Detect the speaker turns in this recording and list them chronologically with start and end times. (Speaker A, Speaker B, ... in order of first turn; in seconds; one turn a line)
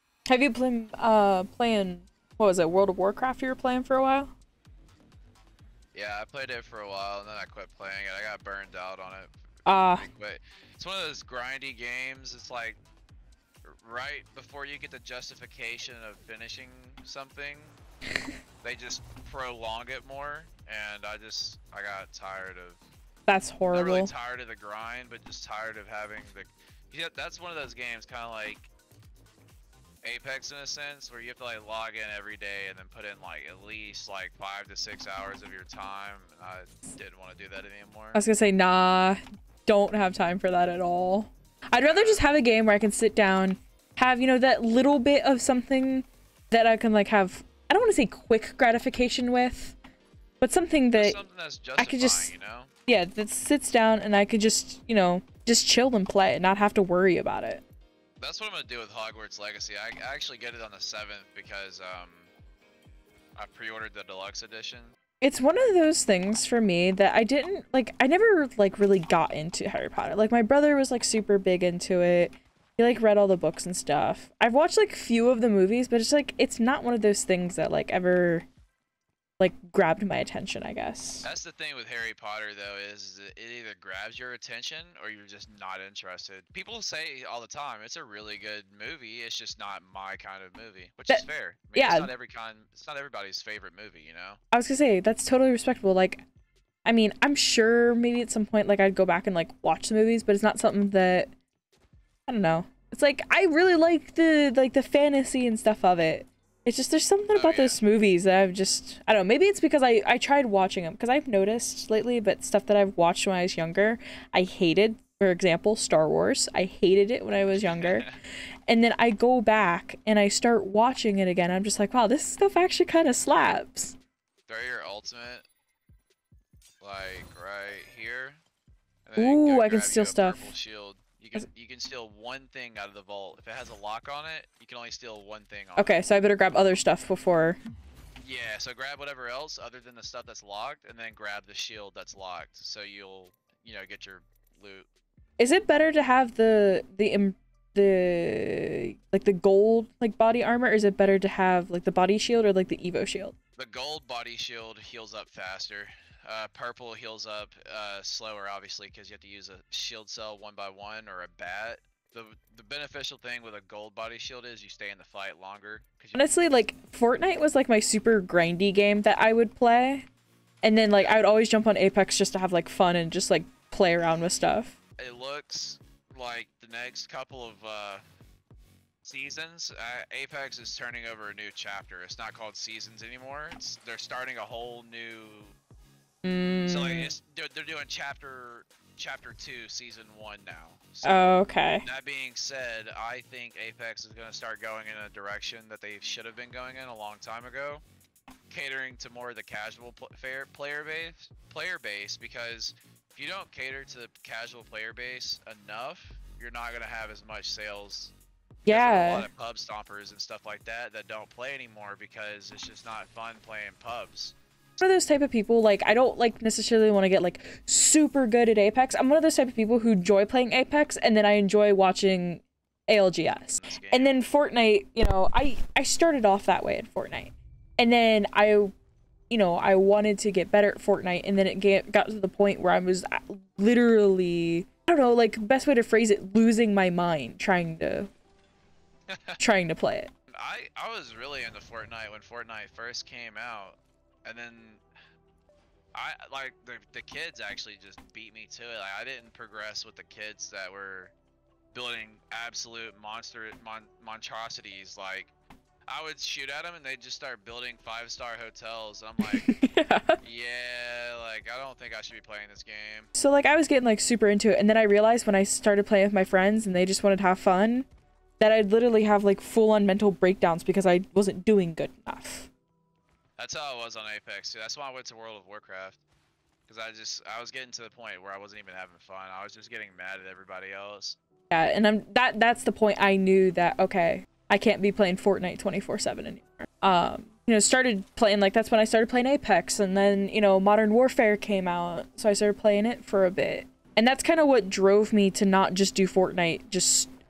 Speaker A: 0.3-4.3
Speaker B: 5.9-12.8
Speaker A: 9.7-10.1
Speaker B: 13.6-17.8
Speaker B: 18.6-22.8
Speaker A: 23.3-24.1
Speaker B: 23.7-28.7
Speaker B: 30.0-38.2
Speaker A: 38.1-49.8
Speaker B: 41.8-42.2
Speaker A: 50.4-51.2
Speaker B: 50.9-52.7
Speaker A: 51.8-52.3
Speaker A: 52.9-57.6
Speaker B: 58.2-62.3
Speaker B: 63.3-65.0
Speaker A: 65.2-78.5
Speaker A: 79.4-81.3
Speaker B: 81.2-94.4
Speaker A: 91.1-92.1
Speaker A: 94.5-96.2
Speaker A: 96.8-101.3
Speaker A: 102.3-118.1
Speaker B: 107.3-107.8
Speaker B: 117.6-118.2
Speaker A: 118.7-124.0
Speaker B: 124.5-125.5
Speaker B: 126.8-128.4
Speaker B: 129.1-136.0
Speaker A: 129.2-130.5
Speaker A: 135.8-137.6
Speaker B: 138.2-144.9
Speaker A: 145.4-153.3
Speaker B: 153.6-166.2
Speaker A: 166.2-170.1
Speaker A: 170.6-174.7
Speaker B: 170.9-171.2
Speaker B: 175.0-178.0
Speaker B: 179.0-185.5
Speaker A: 186.2-187.1
Speaker B: 186.7-197.8
Speaker A: 191.0-191.8
Speaker B: 198.5-208.1
Speaker A: 208.7-209.3
Speaker B: 208.7-214.3
Speaker A: 214.8-228.7
Speaker B: 223.4-224.1
Speaker A: 229.3-238.1
Speaker B: 239.1-239.4
Speaker A: 239.4-240.1
Speaker B: 240.3-244.8
Speaker B: 245.9-251.1
Speaker B: 251.7-255.3
Speaker B: 255.9-259.5
Speaker A: 259.2-260.2
Speaker B: 260.2-263.1
Speaker A: 263.1-267.9
Speaker A: 268.4-272.5
Speaker B: 273.4-276.0
Speaker B: 276.7-281.2
Speaker A: 281.5-297.1